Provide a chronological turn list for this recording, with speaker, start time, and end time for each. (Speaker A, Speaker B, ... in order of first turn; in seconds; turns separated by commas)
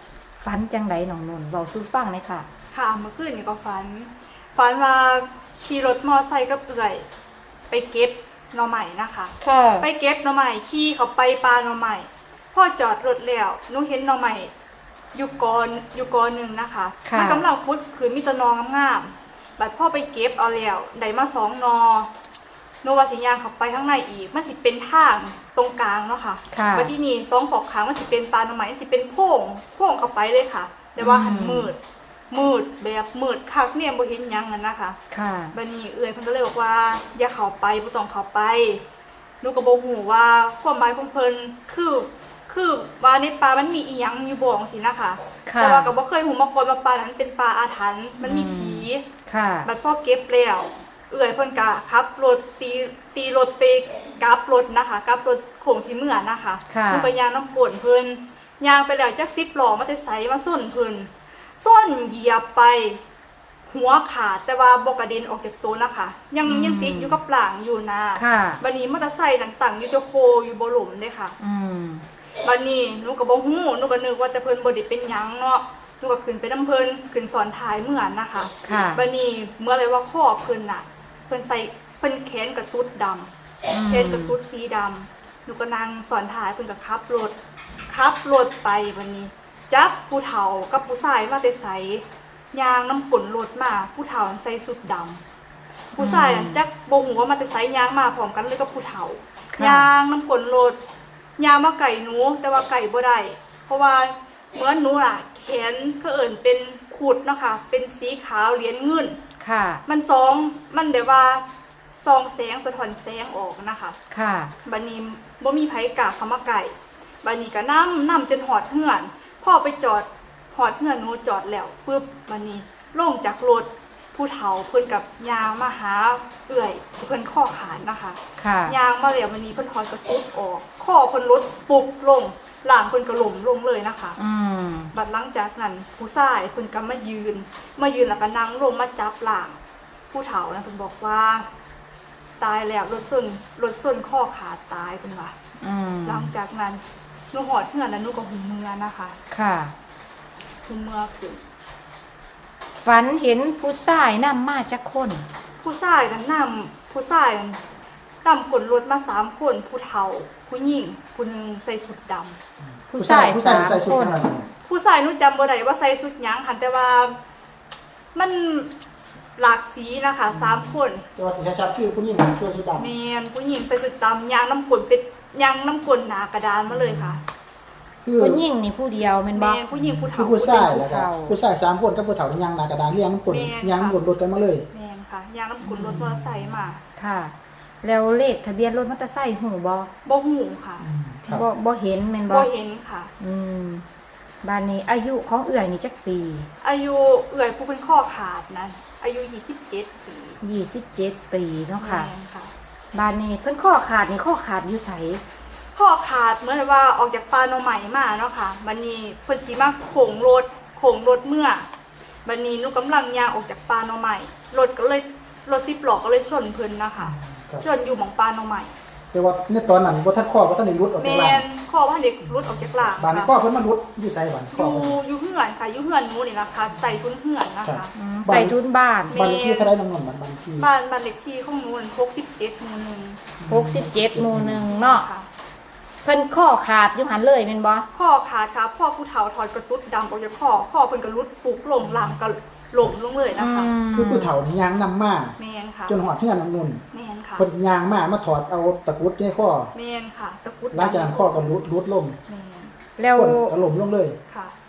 Speaker A: 0.4-2.5, Speaker B: 2.7-7.0, Speaker B: 7.7-14.5, Speaker A: 9.4-9.9, Speaker B: 15.1-22.1, Speaker A: 17.0-17.4, Speaker B: 22.8-31.8, Speaker A: 26.5-26.9, Speaker A: 31.0-31.7, Speaker B: 32.3-35.0, Speaker A: 35.1-35.5, Speaker B: 35.5-38.8, Speaker B: 39.4-49.0, Speaker A: 45.5-45.9, Speaker A: 48.2-49.7, Speaker B: 49.6-63.0, Speaker A: 56.7-57.1, Speaker B: 63.7-71.3, Speaker A: 66.4-67.2, Speaker A: 68.1-68.6, Speaker A: 71.4-72.0, Speaker B: 72.4-83.3, Speaker A: 78.6-79.0, Speaker A: 83.7-84.3, Speaker B: 83.9-87.3, Speaker B: 87.9-95.2, Speaker B: 95.9-100.8, Speaker A: 96.0-96.6, Speaker A: 99.5-99.9, Speaker B: 101.4-109.2, Speaker A: 109.4-109.8, Speaker B: 109.9-111.4, Speaker B: 112.0-114.0, Speaker A: 114.1-114.5, Speaker B: 114.6-134.2, Speaker A: 128.4-128.8, Speaker A: 134.2-134.9, Speaker B: 134.9-139.6, Speaker B: 140.1-141.5, Speaker B: 142.4-145.3, Speaker A: 145.6-146.3, Speaker B: 146.0-149.2, Speaker A: 149.3-149.7, Speaker B: 150.7-151.4, Speaker A: 152.7-155.3, Speaker B: 155.6-157.6, Speaker B: 158.2-162.4, Speaker A: 162.9-164.2, Speaker C: 162.9-164.5, Speaker B: 164.7-167.2, Speaker B: 168.1-168.7, Speaker B: 169.4-171.1, Speaker C: 170.3-172.9, Speaker B: 172.8-177.2, Speaker C: 176.7-177.2, Speaker C: 178.0-178.4, Speaker A: 178.2-179.6, Speaker B: 179.3-180.8, Speaker C: 179.7-184.7, Speaker A: 180.5-181.3, Speaker B: 183.3-184.0, Speaker B: 184.7-186.8, Speaker C: 185.6-186.7, Speaker A: 186.9-189.9, Speaker B: 190.0-190.9, Speaker C: 190.8-191.4, Speaker A: 191.3-192.5, Speaker B: 192.3-193.1, Speaker A: 193.2-193.8, Speaker A: 194.4-196.5, Speaker B: 196.6-200.4, Speaker A: 200.4-202.1, Speaker B: 201.8-202.5, Speaker A: 202.9-205.2, Speaker B: 205.7-211.7, Speaker B: 212.2-218.7, Speaker C: 217.0-217.7, Speaker C: 219.1-221.4, Speaker B: 221.0-223.3, Speaker C: 222.2-225.0, Speaker B: 224.5-227.9, Speaker C: 227.6-228.5, Speaker A: 227.9-229.2, Speaker B: 229.1-229.7, Speaker C: 229.1-230.7, Speaker B: 230.6-233.2, Speaker C: 233.4-234.7, Speaker A: 233.5-235.1, Speaker B: 234.7-235.3, Speaker A: 236.0-237.9, Speaker B: 237.9-243.8, Speaker C: 241.8-242.2, Speaker A: 243.4-244.3, Speaker C: 243.9-246.8, Speaker B: 245.4-245.9, Speaker B: 246.9-247.4, Speaker C: 247.4-249.7, Speaker B: 249.7-251.5, Speaker C: 250.7-252.2, Speaker B: 252.3-252.7, Speaker A: 253.0-253.5, Speaker C: 253.1-254.2